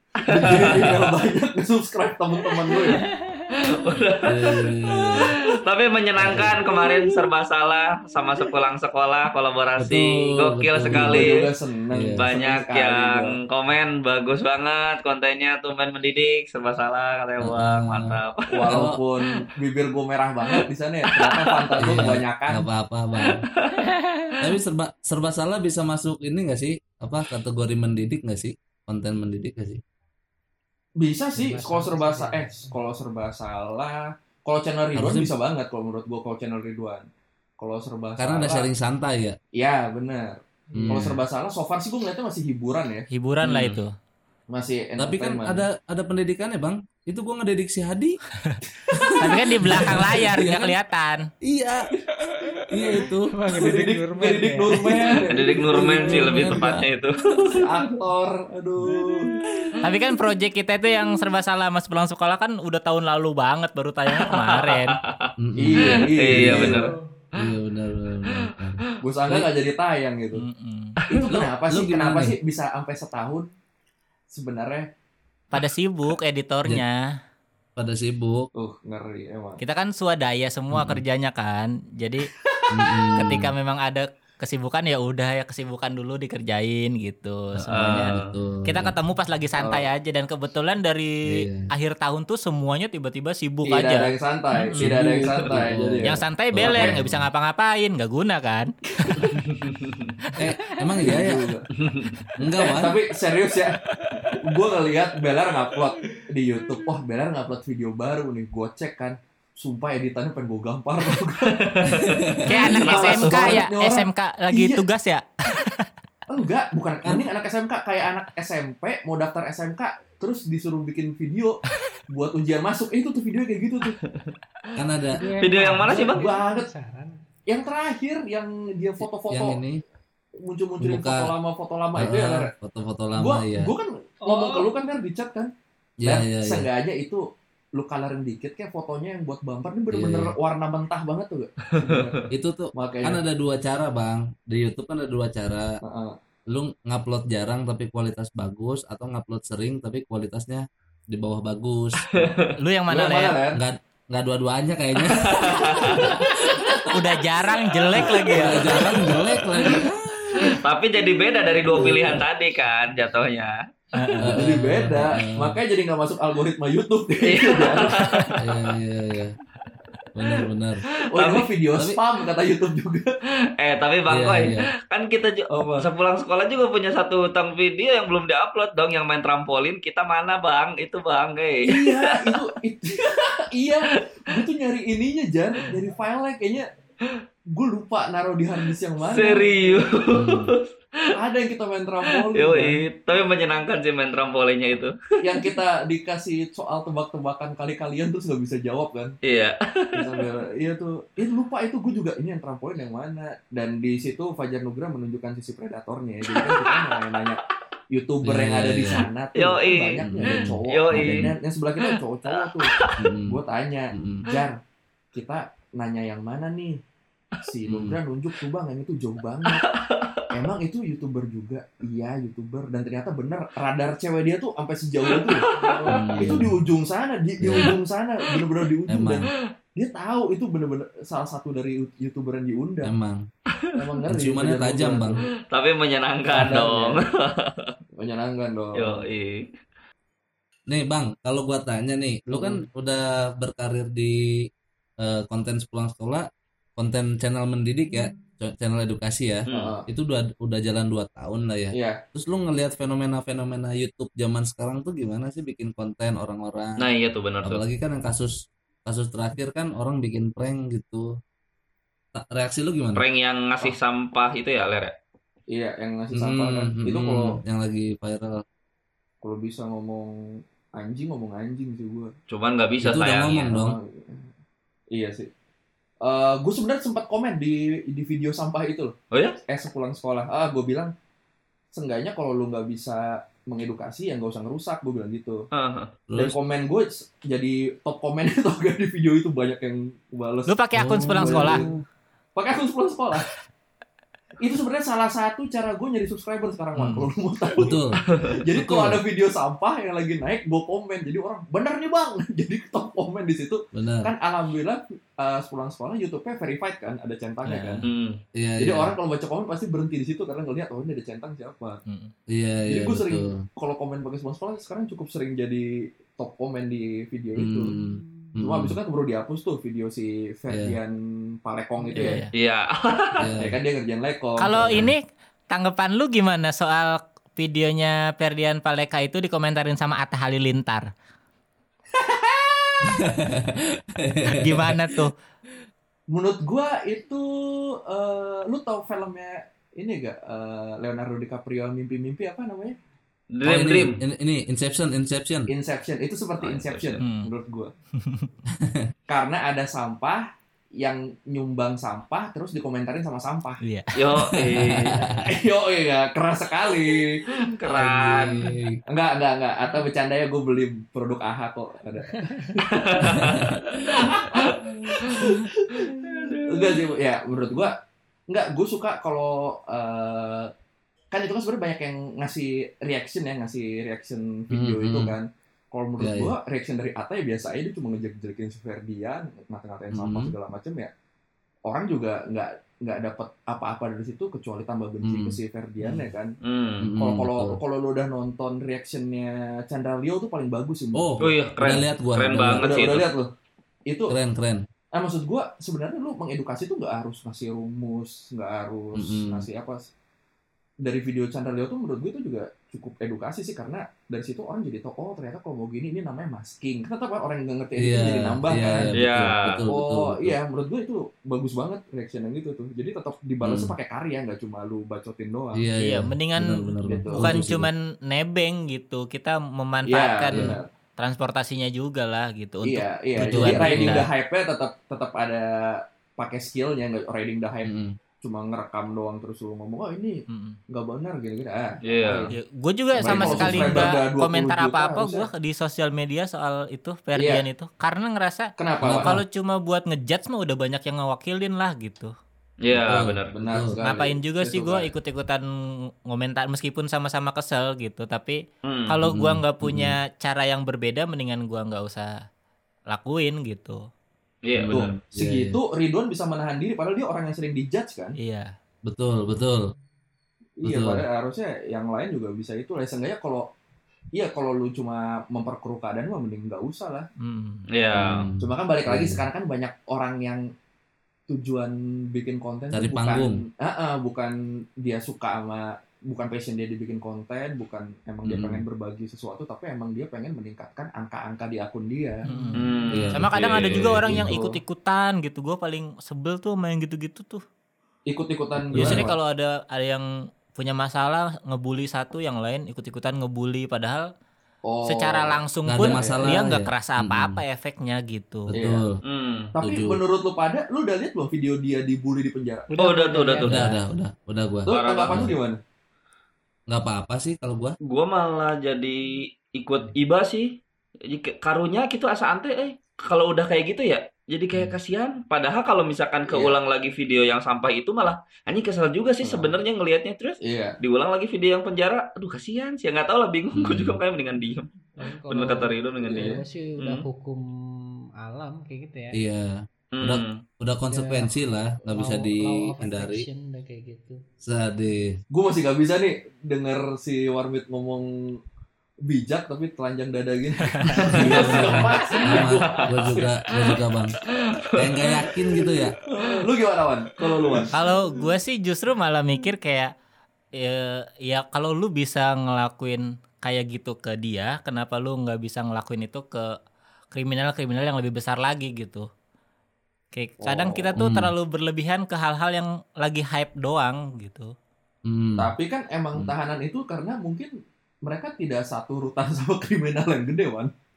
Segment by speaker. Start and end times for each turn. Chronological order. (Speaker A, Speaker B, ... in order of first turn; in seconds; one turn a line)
Speaker A: 0.2-3.1
Speaker B: 0.3-1.1
Speaker C: 0.5-1.0
Speaker B: 2.7-3.0
Speaker D: 3.0-3.5
Speaker B: 3.5-11.5
Speaker C: 4.2-5.3
Speaker C: 6.2-6.6
Speaker C: 9.8-11.3
Speaker A: 10.9-13.4
Speaker C: 11.9-12.2
Speaker B: 12.1-18.8
Speaker C: 17.4-18.1
Speaker A: 18.5-22.7
Speaker C: 18.7-19.0
Speaker B: 20.5-22.0
Speaker C: 21.8-23.4
Speaker B: 23.2-23.9
Speaker C: 24.4-29.8
Speaker A: 31.0-37.1
Speaker D: 31.4-32.7
Speaker C: 34.9-35.3
Speaker A: 37.6-38.7
Speaker C: 38.2-39.4
Speaker A: 39.5-43.0
Speaker D: 40.7-41.2
Speaker C: 40.8-41.2
Speaker E: 43.1-43.9
Speaker B: 43.4-43.8
Speaker A: 44.5-45.6
Speaker C: 45.0-48.2
Speaker C: 48.9-50.7
Speaker E: 49.2-51.2
Speaker C: 51.4-51.9
Speaker D: 52.2-55.3
Speaker C: 52.7-53.3
Speaker A: 53.5-56.5
Speaker B: 55.3-57.7
Speaker C: 56.0-56.9
Speaker A: 57.6-59.3
Speaker D: 58.9-59.4
Speaker E: 59.8-65.0
Speaker B: 64.2-67.5
Speaker C: 65.4-66.8
Speaker A: 65.6-66.9
Speaker D: 66.6-67.0
Speaker C: 67.4-69.5
Speaker B: 68.2-68.5
Speaker A: 69.0-70.4
Speaker E: 70.4-71.0
Speaker A: 71.1-73.5
Speaker C: 71.3-72.3
Speaker A: 74.3-74.9
Speaker E: 75.5-77.0
Speaker C: 77.8-78.5
Speaker A: 78.5-79.6
Speaker E: 79.6-82.3
Speaker C: 80.7-81.0
Speaker A: 82.5-83.0
Speaker C: 82.7-83.5
Speaker E: 83.2-94.9
Speaker C: 87.5-88.9
Speaker B: 87.7-88.3
Speaker A: 89.6-89.9
Speaker C: 91.3-91.7
Speaker A: 93.6-97.0
Speaker C: 94.8-97.2
Speaker E: 96.0-99.4
Speaker A: 99.0-99.4
Speaker B: 99.5-100.1
Speaker C: 100.4-101.4
Speaker A: 101.0-101.7
Speaker B: 101.8-102.2
Speaker C: 102.4-103.0
Speaker A: 102.5-103.8
Speaker A: 104.4-112.0
Speaker B: 111.5-113.6
Speaker C: 111.8-112.6
Speaker E: 112.5-115.8
Speaker A: 112.8-114.8
Speaker A: 116.3-124.0
Speaker C: 124.8-125.2
Speaker D: 125.1-127.1
Speaker B: 125.4-126.3
Speaker A: 125.9-126.7
Speaker A: 127.5-129.6
Speaker C: 129.3-129.8
Speaker A: 130.4-132.5
Speaker C: 130.8-131.3
Speaker C: 131.9-133.7
Speaker A: 133.2-135.5
Speaker D: 134.2-134.7
Speaker C: 136.0-136.7
Speaker A: 136.0-142.2
Speaker C: 139.9-140.3
Speaker B: 141.8-142.2
Speaker C: 142.3-145.7
Speaker A: 142.7-143.2
Speaker A: 145.8-146.2
Speaker C: 146.5-152.3
Speaker B: 152.2-152.5
Speaker E: 152.6-153.4
Speaker A: 152.9-153.6
Speaker C: 153.5-156.3
Speaker B: 155.0-156.7
Speaker E: 156.9-158.6
Speaker B: 157.9-159.8
Speaker C: 158.3-160.5
Speaker B: 160.4-163.6
Speaker C: 161.8-162.2
Speaker A: 161.8-162.1
Speaker E: 163.9-164.3
Speaker A: 164.2-168.3
Speaker C: 164.2-165.6
Speaker B: 167.2-168.6
Speaker C: 168.4-169.3
Speaker C: 170.1-170.8
Speaker A: 171.1-173.1
Speaker B: 171.1-171.5
Speaker B: 173.6-182.4
Speaker C: 174.1-174.7
Speaker A: 175.5-175.9
Speaker A: 181.7-186.7
Speaker A: 187.5-189.8
Speaker B: 188.7-191.0
Speaker C: 190.1-190.6
Speaker A: 191.1-192.8
Speaker B: 192.3-195.5
Speaker A: 195.2-199.1
Speaker B: 199.2-200.3
Speaker A: 199.9-212.7
Speaker B: 206.3-207.2
Speaker C: 208.2-209.1
Speaker B: 209.3-211.3
Speaker C: 210.0-211.3
Speaker B: 212.3-212.9
Speaker C: 213.0-213.4
Speaker A: 213.3-214.6
Speaker C: 213.9-214.2
Speaker A: 215.1-216.8
Speaker A: 217.4-219.7
Speaker C: 217.7-217.9
Speaker B: 219.5-220.2
Speaker A: 220.3-232.9
Speaker B: 225.1-226.4
Speaker C: 225.9-226.5
Speaker C: 227.4-227.7
Speaker C: 228.9-229.2
Speaker C: 232.8-233.2
Speaker A: 233.8-235.2
Speaker C: 234.1-235.2
Speaker B: 235.5-237.7
Speaker A: 236.3-237.0
Speaker A: 238.0-239.1
Speaker B: 238.8-239.5
Speaker C: 240.7-244.2
Speaker A: 242.3-242.6
Speaker C: 245.0-246.2
Speaker C: 246.8-256.8
Speaker B: 249.5-249.7
Speaker A: 249.5-249.8
Speaker A: 251.7-252.0
Speaker B: 256.8-257.6
Speaker C: 257.4-258.3
Speaker C: 258.8-261.1
Speaker C: 262.1-263.0
Speaker B: 262.9-264.9
Speaker A: 265.5-267.4
Speaker C: 266.1-268.4
Speaker A: 269.2-270.1
Speaker A: 270.8-272.1
Speaker B: 272.3-273.5
Speaker C: 272.8-273.8
Speaker A: 273.5-274.3
Speaker A: 274.9-275.3
Speaker A: 276.0-280.9
Speaker B: 279.1-279.4
Speaker A: 281.7-285.4
Speaker B: 285.5-285.9
Speaker C: 286.1-286.4
Speaker A: 286.1-290.5
Speaker E: 290.5-291.6
Speaker C: 290.8-291.8
Speaker A: 291.1-291.7
Speaker A: 292.4-293.2
Speaker A: 294.4-307.9
Speaker E: 296.8-297.1
Speaker C: 297.6-298.0
Speaker C: 298.6-299.0
Speaker C: 303.7-304.1
Speaker E: 307.4-307.8
Speaker B: 307.8-308.2
Speaker C: 308.4-308.9
Speaker A: 308.6-311.8
Speaker E: 311.9-312.1
Speaker C: 312.3-313.4
Speaker A: 312.7-317.7
Speaker C: 317.4-318.7
Speaker A: 318.4-322.2
Speaker C: 320.5-320.8
Speaker E: 321.9-322.3
Speaker B: 322.3-323.3
Speaker C: 323.1-323.6
Speaker A: 323.4-324.9
Speaker E: 324.4-330.9
Speaker C: 324.6-324.9
Speaker A: 331.9-333.0
Speaker C: 332.9-334.7
Speaker E: 334.2-335.1
Speaker A: 336.1-342.8
Speaker B: 343.3-344.0
Speaker C: 343.4-345.5
Speaker A: 345.5-347.7
Speaker B: 346.4-347.0
Speaker E: 347.0-347.3
Speaker A: 349.1-350.2
Speaker A: 350.8-353.6
Speaker E: 353.6-353.9
Speaker B: 354.0-355.1
Speaker C: 354.4-355.2
Speaker A: 354.9-357.4
Speaker B: 356.9-358.4
Speaker C: 357.7-358.8
Speaker A: 358.9-363.3
Speaker B: 362.7-363.4
Speaker C: 363.0-364.1
Speaker A: 364.0-365.9
Speaker B: 364.1-365.3
Speaker B: 365.9-366.9
Speaker A: 366.4-367.8
Speaker A: 368.3-370.5
Speaker A: 371.1-380.9
Speaker C: 374.5-375.1
Speaker C: 376.0-376.3
Speaker C: 379.9-380.3
Speaker A: 381.7-386.3
Speaker C: 385.0-385.4
Speaker E: 385.8-386.1
Speaker B: 386.4-386.9
Speaker C: 386.8-387.6
Speaker A: 387.0-391.1
Speaker C: 390.9-393.0
Speaker B: 391.2-393.1
Speaker A: 392.6-393.3
Speaker A: 393.9-394.1
Speaker C: 394.1-394.6
Speaker A: 394.9-399.9
Speaker C: 399.0-399.4
Speaker A: 400.8-415.6
Speaker C: 407.8-410.4
Speaker B: 408.9-409.6
Speaker C: 413.4-413.7
Speaker C: 415.5-417.7
Speaker E: 415.8-424.1
Speaker A: 416.8-417.4
Speaker A: 419.9-420.7
Speaker A: 422.6-427.7
Speaker C: 423.2-424.0
Speaker C: 427.6-427.9
Speaker A: 428.2-432.3
Speaker E: 430.3-430.6
Speaker B: 431.8-432.3
Speaker E: 432.3-442.1
Speaker C: 433.0-433.9
Speaker A: 433.0-435.3
Speaker A: 437.1-437.4
Speaker A: 438.6-439.2
Speaker C: 438.8-439.2
Speaker B: 442.6-443.4
Speaker C: 442.7-443.7
Speaker A: 443.4-444.9
Speaker E: 443.7-445.4
Speaker E: 446.1-452.1
Speaker B: 448.6-448.9
Speaker C: 449.1-449.9
Speaker E: 452.9-453.8
Speaker B: 454.4-455.0
Speaker C: 454.5-455.6
Speaker A: 454.7-458.1
Speaker E: 458.2-458.5
Speaker C: 458.9-459.6
Speaker A: 460.6-463.5
Speaker C: 460.6-461.0
Speaker A: 464.1-467.1
Speaker E: 467.2-467.6
Speaker B: 467.7-468.2
Speaker C: 467.9-469.2
Speaker A: 468.4-470.4
Speaker A: 471.3-482.2
Speaker C: 472.7-473.4
Speaker C: 478.2-478.6
Speaker E: 482.3-487.4
Speaker B: 482.6-484.0
Speaker C: 482.9-484.3
Speaker A: 484.1-484.6
Speaker A: 488.1-489.2
Speaker C: 488.6-489.0
Speaker E: 488.7-494.0
Speaker A: 494.6-496.4
Speaker E: 494.9-498.5
Speaker C: 495.6-497.4
Speaker C: 498.5-499.0
Speaker A: 498.5-498.8
Speaker B: 499.0-499.5
Speaker A: 499.5-502.7
Speaker C: 499.6-500.0
Speaker D: 502.7-503.7
Speaker B: 502.8-503.7
Speaker C: 503.4-505.4
Speaker A: 504.6-505.6
Speaker B: 504.7-505.3
Speaker C: 506.7-507.7
Speaker B: 507.9-527.0
Speaker A: 516.3-516.5
Speaker A: 519.2-519.5
Speaker A: 520.4-520.8
Speaker C: 523.5-524.0
Speaker D: 525.0-527.4
Speaker A: 526.0-526.4
Speaker D: 528.2-529.2
Speaker C: 529.1-533.2
Speaker B: 529.9-530.4
Speaker D: 530.9-534.2
Speaker C: 534.4-535.1
Speaker A: 535.3-538.1
Speaker A: 539.1-543.1
Speaker E: 540.9-541.5
Speaker C: 541.2-544.1
Speaker D: 541.4-541.8
Speaker B: 542.3-543.8
Speaker B: 544.5-546.3
Speaker C: 544.8-545.9
Speaker A: 546.1-547.7
Speaker B: 547.4-547.7
Speaker E: 547.7-549.9
Speaker E: 550.6-556.4
Speaker E: 557.1-559.1
Speaker E: 560.1-564.5
Speaker A: 560.4-560.9
Speaker C: 561.0-561.3
Speaker C: 565.1-565.5
Speaker A: 565.4-567.5
Speaker A: 568.0-570.7